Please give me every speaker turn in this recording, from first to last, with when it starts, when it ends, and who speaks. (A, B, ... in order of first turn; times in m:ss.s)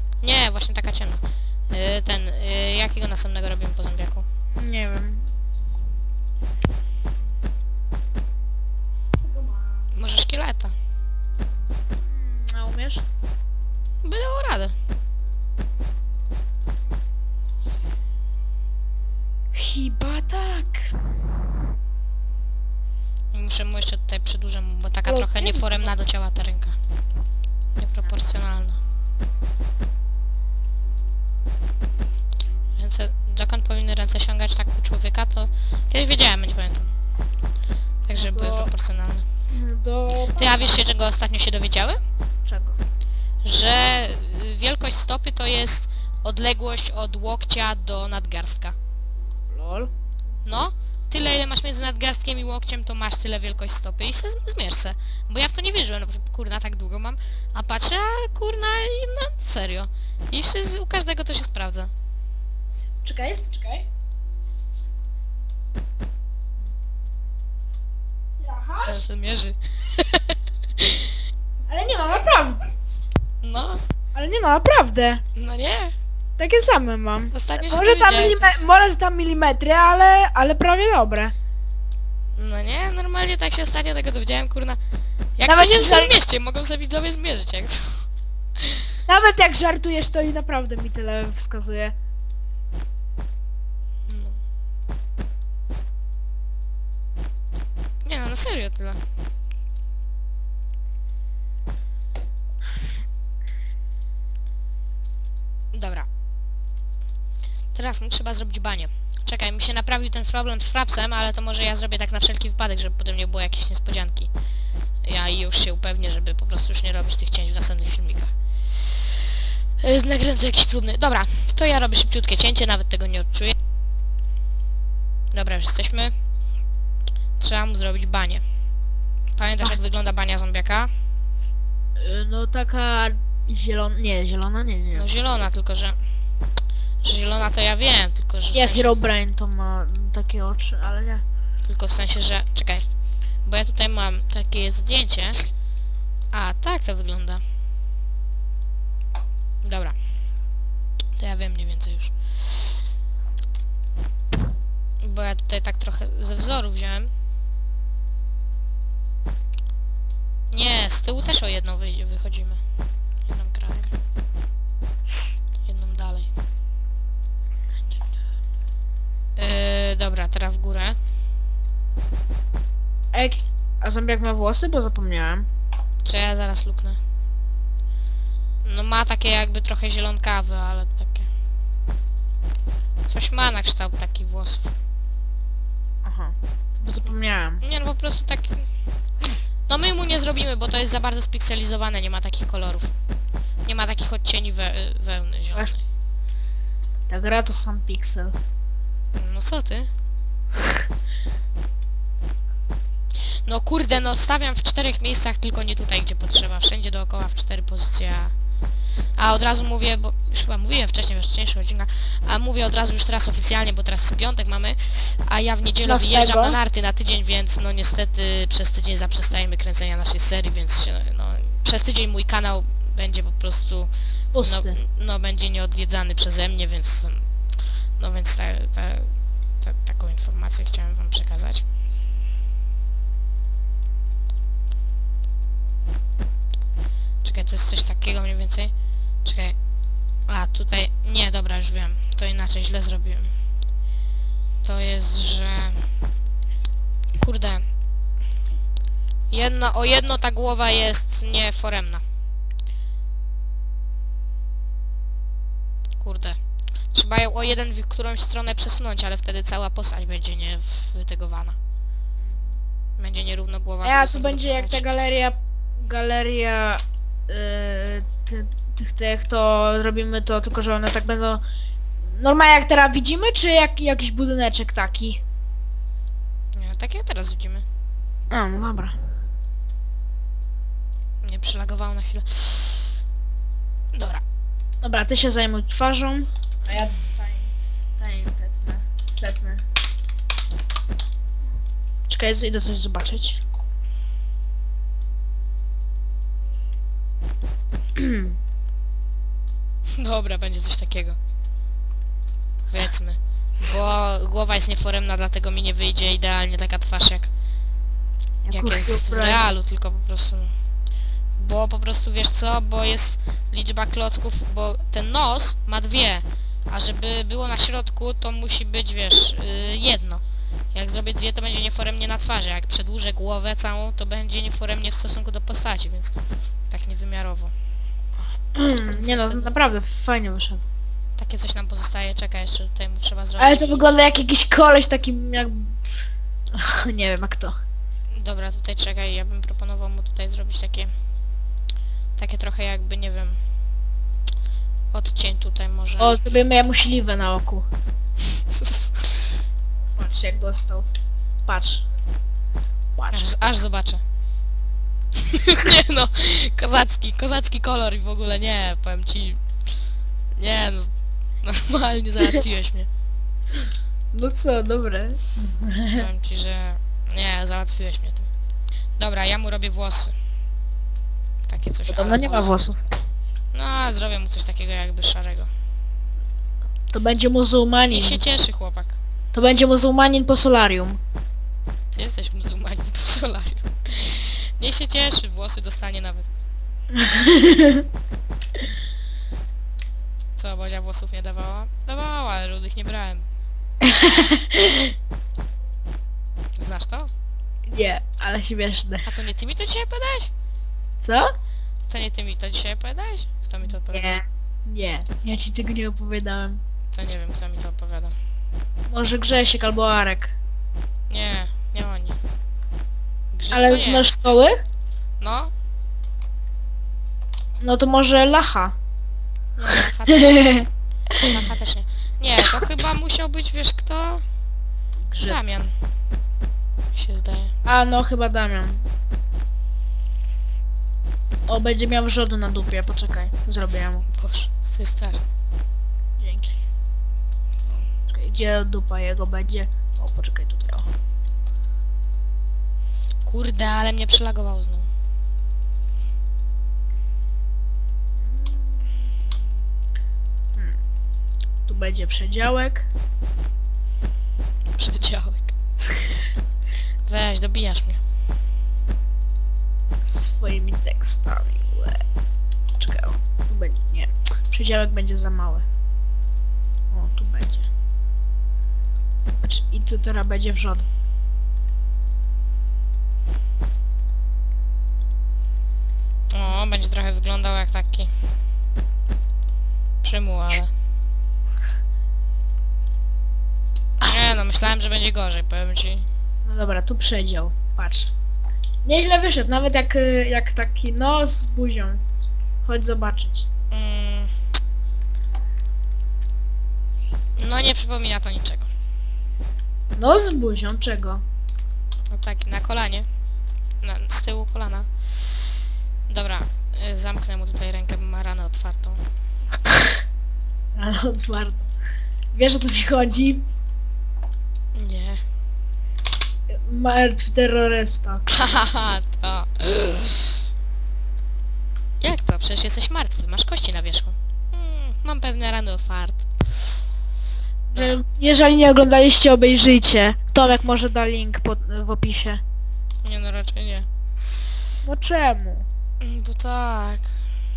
0:00.2-0:04.2 A
0:04.5-0:05.2 B
0:09.9-0:10.7 A
0:12.1-0:13.0 B
0:14.0-0:14.7 A
0:19.5-0:21.0 B
0:23.3-0:26.7 A
0:25.0-0:25.9 B
0:27.8-0:28.8 A
0:32.8-0:36.9 A
0:38.0-0:39.2 A
0:38.1-0:38.7 B
0:39.5-0:40.8 B
0:40.3-0:42.0 A
0:42.4-0:42.8 B
0:43.4-0:48.7 A
0:49.5-0:49.9 B
0:50.4-1:01.9 A
1:03.0-1:03.8 B
1:08.4-1:08.9 B
1:08.8-1:11.1 A
1:11.7-1:12.6 B
1:13.4-1:13.8 A
1:14.1-1:15.2 B
1:15.3-1:15.9 A
1:16.4-1:21.3 B
1:17.3-1:18.5 A
1:22.4-1:24.8 A
1:25.4-1:28.0 A
1:25.4-1:26.1 B
1:28.6-1:28.9 A
1:29.1-1:31.9 B
1:34.0-1:34.4 A
1:38.0-1:39.0 A
1:45.7-1:46.1 A
1:47.7-1:54.3 A
1:55.0-1:59.2 A
1:59.8-2:03.5 A
2:05.3-2:06.1 A
2:07.4-2:08.4 A
2:09.3-2:10.9 A
2:12.0-2:15.1 B
2:14.9-2:16.0 A
2:17.0-2:18.9 A
2:18.5-2:21.2 B
2:21.7-2:22.8 A
2:23.4-2:25.4 A
2:26.3-2:27.4 A
2:29.6-2:30.0 A
2:31.2-2:32.1 A
2:35.0-2:37.1 A
2:40.5-2:42.6 A
2:43.2-2:43.9 A
2:45.6-2:46.3 A
2:49.4-2:51.0 A
2:53.1-2:55.4 B
2:56.0-2:57.0 A
2:58.6-3:01.3 A
3:03.1-3:04.7 A
3:06.0-3:07.6 B
3:07.6-3:08.6 A
3:09.7-3:12.9 A
3:13.6-3:15.8 A
3:17.1-3:18.3 B
3:19.1-3:19.9 A
3:23.3-3:28.3 A
3:29.2-3:47.3 A
3:35.8-3:36.6 B
3:44.3-3:44.8 B
3:48.0-3:49.1 A
3:49.6-3:51.6 A
3:57.2-3:58.7 A
3:59.2-3:59.6 A
4:00.3-4:03.3 A
4:04.6-4:05.8 A
4:07.2-4:07.6 A
4:09.3-4:12.0 A
4:16.0-4:16.4 A
4:16.9-4:21.6 A
4:22.2-4:22.5 B
4:23.0-4:24.8 A
4:23.8-4:31.4 B
4:32.1-4:35.2 B
4:36.5-4:37.6 A
4:38.3-4:39.0 B
4:41.2-4:43.0 A
4:43.9-4:44.2 A
4:44.8-4:49.6 B
4:52.1-4:53.4 B
4:58.0-4:58.4 B
5:00.0-5:01.2 A
5:02.7-5:07.3 A
5:08.4-5:09.5 B
5:08.5-5:10.5 A
5:11.4-5:20.2 A
5:20.7-5:26.1 A
5:26.7-5:27.5 A
5:28.5-5:30.6 B
5:28.9-5:29.5 A
5:31.2-5:33.9 A
5:33.4-5:35.8 B
5:36.5-5:37.5 B
5:38.1-5:40.9 A
5:42.2-5:43.4 A
5:44.9-5:46.3 A
5:46.0-5:47.7 B
5:48.5-5:49.2 A
5:50.0-5:50.8 B
5:51.4-5:51.8 B
5:53.0-5:53.2 B
5:53.1-5:54.0 A
5:55.2-5:59.4 A
6:00.4-6:00.9 A
6:01.4-6:02.9 A
6:04.1-6:06.0 B
6:05.9-6:08.3 A
6:09.0-6:10.1 A
6:11.5-6:12.5 A
6:11.9-6:12.8 B
6:13.5-6:15.5 A
6:16.9-6:18.2 B
6:17.9-6:19.0 A
6:19.3-6:21.0 B
6:21.9-6:26.3 A
6:26.9-6:27.8 B
6:30.4-6:33.2 A
6:33.8-6:34.9 B
6:36.6-6:37.1 A
6:37.7-6:39.1 B
6:39.0-6:40.3 A
6:41.0-6:41.3 B
6:41.9-6:44.1 A
6:43.7-6:46.6 B
6:46.9-6:48.1 A
6:48.9-6:50.3 B
6:51.1-6:52.2 A
6:53.3-6:54.2 A
6:53.5-6:54.6 B
6:55.2-6:55.5 A
6:57.6-6:58.7 B
6:59.6-7:00.5 A
7:00.1-7:01.2 B
7:01.2-7:04.2 A
7:05.1-7:05.4 B
7:05.2-7:05.7 A
7:06.9-7:07.5 A
7:07.6-7:08.8 B
7:11.5-7:14.0 B
7:14.1-7:15.2 A
7:16.2-7:16.5 B
7:18.1-7:20.9 B
7:23.2-7:24.9 A
7:28.2-7:29.0 B
7:31.7-7:32.9 B
7:34.8-7:35.5 A
7:37.0-7:38.0 A
7:40.1-7:42.0 B
7:42.8-7:45.6 B
7:46.9-7:47.7 B
7:49.4-7:50.8 B
7:56.3-7:58.1 A
8:00.0-8:00.7 A
8:04.0-8:06.0 A
8:06.4-8:08.1 B
8:08.8-8:12.0 B
8:12.6-8:13.4 B
8:13.7-8:14.3 A
8:17.4-8:18.7 A
8:19.9-8:21.2 B
8:22.1-8:23.1 A
8:23.8-8:24.9 A
8:26.1-8:29.0 A
8:30.8-8:31.7 B
8:32.3-8:33.4 B
8:34.7-8:35.2 A
8:36.5-8:38.2 B
8:38.3-8:40.3 A
8:42.0-8:46.3 A
8:47.7-8:52.4 B
8:47.7-8:48.0 A
8:53.0-8:53.9 A
8:54.8-8:55.6 B
8:56.0-8:57.1 A